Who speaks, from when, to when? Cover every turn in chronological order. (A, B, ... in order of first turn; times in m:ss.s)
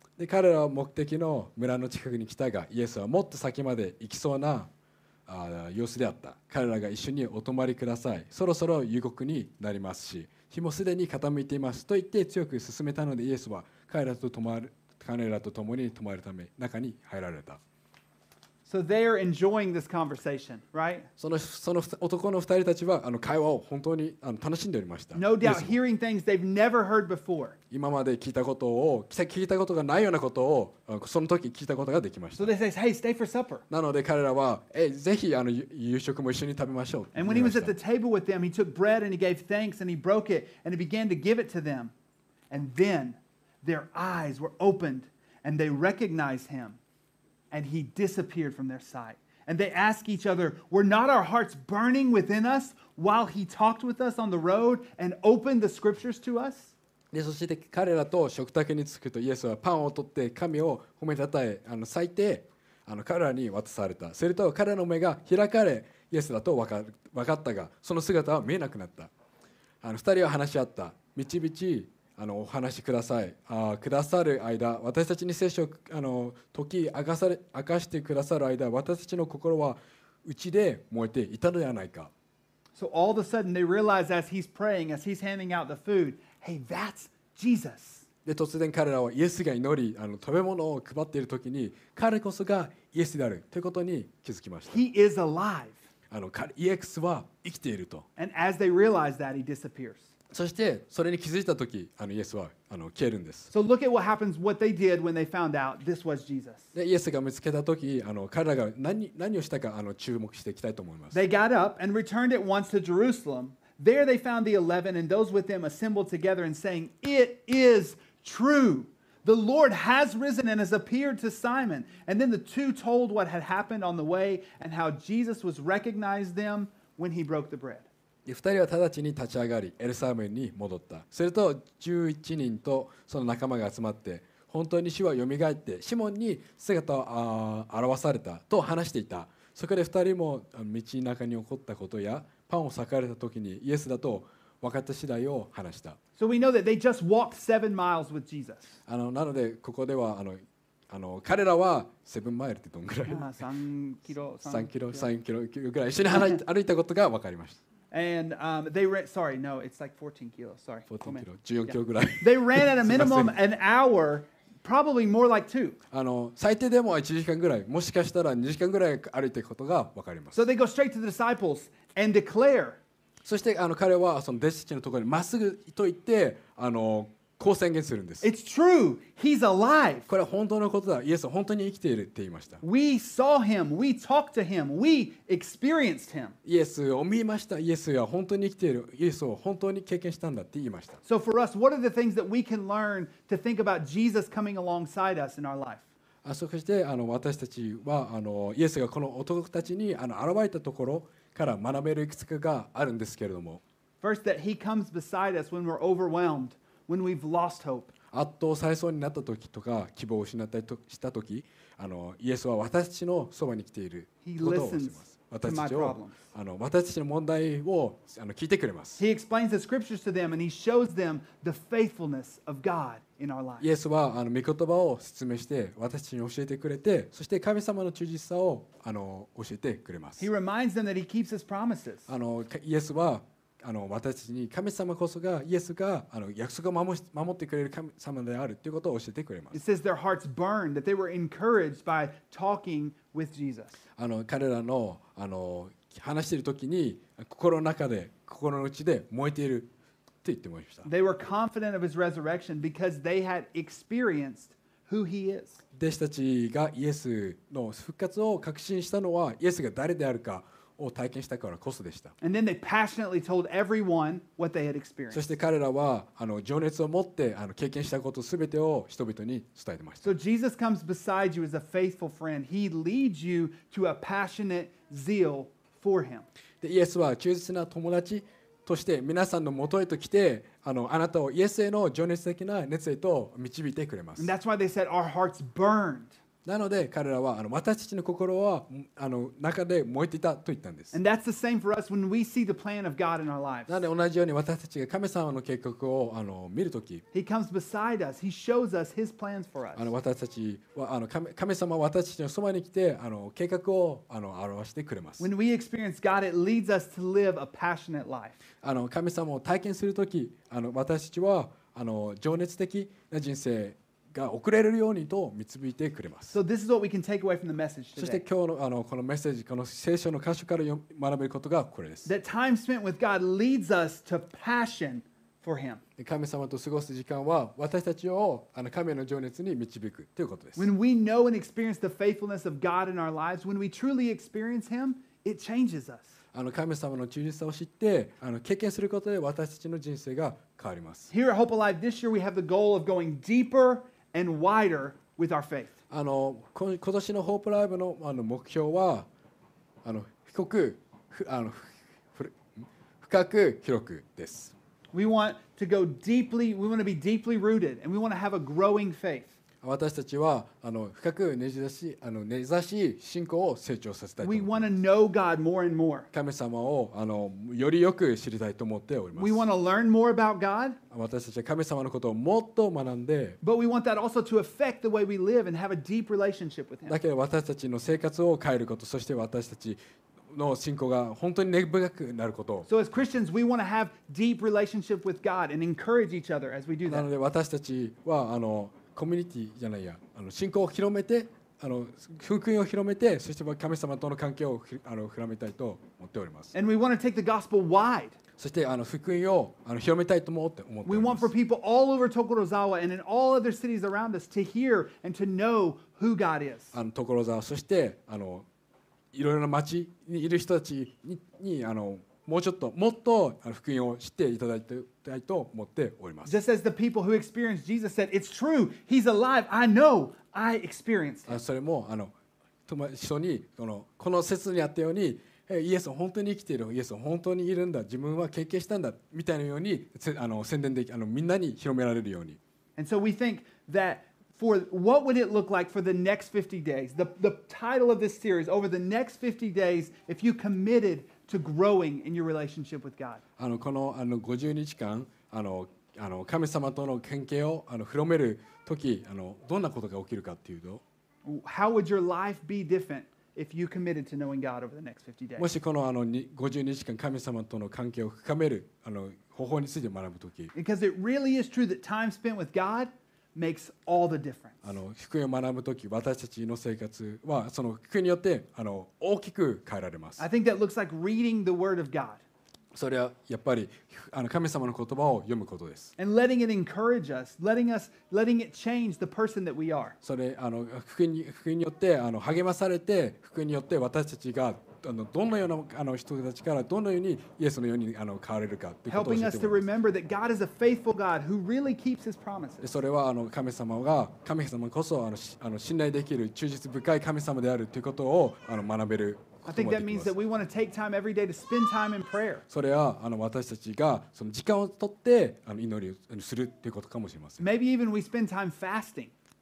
0:00.2-0:04.7 A
0:05.3-0:17.6 A
0:18.6-0:21.1 B
0:21.2-0:25.8 A
0:25.1-0:27.6 B
0:27.7-0:32.5 A
0:32.4-0:33.6 B
0:33.7-0:37.7 A
0:37.1-0:41.9 B
0:42.5-0:46.8 B
0:47.5-0:56.7 B
0:57.1-1:09.1 A
1:09.8-1:22.1 A
1:22.8-1:28.0 B
1:28.2-1:34.8 A
1:34.7-1:35.8 B
1:36.1-1:38.1 A
1:38.2-1:40.1 B
1:40.3-1:43.5 A
1:43.5-1:46.7 B
1:46.7-1:51.2 A
1:51.1-2:07.9 B
2:08.2-2:26.0 A
2:26.2-2:28.8 B
2:28.9-2:33.4 A
2:33.1-2:35.1 B
2:34.4-2:37.6 A
2:36.1-2:36.4 B
2:37.9-2:45.8 B
2:40.9-2:43.4 A
2:45.9-2:50.4 A
2:50.3-2:52.8 B
2:53.2-2:58.3 A
2:58.2-3:00.1 B
3:00.1-3:02.6 A
3:02.6-3:06.4 B
3:06.4-3:11.0 A
3:11.0-3:15.9 B
3:16.2-3:23.6 A
3:24.0-3:27.9 B
3:28.1-3:39.0 A
3:34.2-3:36.2 B
3:39.0-3:43.7 B
3:43.6-3:50.3 A
3:50.2-3:52.1 B
3:52.1-3:59.6 A
3:59.5-4:03.8 B
4:04.0-4:09.7 A
4:10.2-4:10.9 A
4:10.8-4:15.6 B
4:15.7-4:22.1 A
4:22.2-4:25.3 B
4:25.1-4:30.2 A
4:30.0-4:36.3 B
4:36.6-4:44.3 A
4:44.2-4:46.1 B
4:46.4-4:51.0 A
4:50.9-4:53.8 B
4:53.7-4:57.0 A
4:57.1-4:59.9 B
4:59.8-5:05.3 A
5:05.2-5:08.4 B
5:08.6-5:16.4 A
5:16.3-5:18.2 B
5:18.0-5:22.1 A
5:22.0-5:25.8 B
5:26.0-5:30.7 A
5:30.6-5:36.2 B
5:36.3-5:41.1 A
5:41.1-5:45.8 B
5:45.9-5:49.1 A
5:49.8-5:54.5 A
5:54.9-5:59.3 B
5:59.6-6:04.8 A
6:04.2-6:06.1 B
6:06.1-6:09.5 A
6:09.1-6:10.8 B
6:10.9-6:13.4 A
6:13.4-6:17.0 B
6:16.9-6:19.8 A
6:20.3-6:22.7 A
6:22.7-6:27.1 B
6:26.8-6:36.5 A
6:36.5-6:38.2 B
6:38.4-6:41.3 A
6:40.8-6:46.7 B
6:46.7-6:48.4 A
6:49.1-6:56.3 A
6:56.2-7:01.4 B
7:01.3-7:02.1 A
7:02.7-7:12.4 A
7:12.8-7:23.2 B
7:23.4-7:30.8 A
7:31.2-7:35.5 B
7:35.4-7:40.5 A
7:40.5-7:44.6 B
7:44.6-7:50.2 A
7:50.2-7:52.2 B
7:52.7-7:55.9 A
7:56.0-8:00.0 B
8:00.0-8:09.7 A
8:08.9-8:12.6 B
8:12.6-8:20.2 A
8:19.4-8:22.4 B
8:22.5-8:27.4 A
8:27.4-8:29.1 B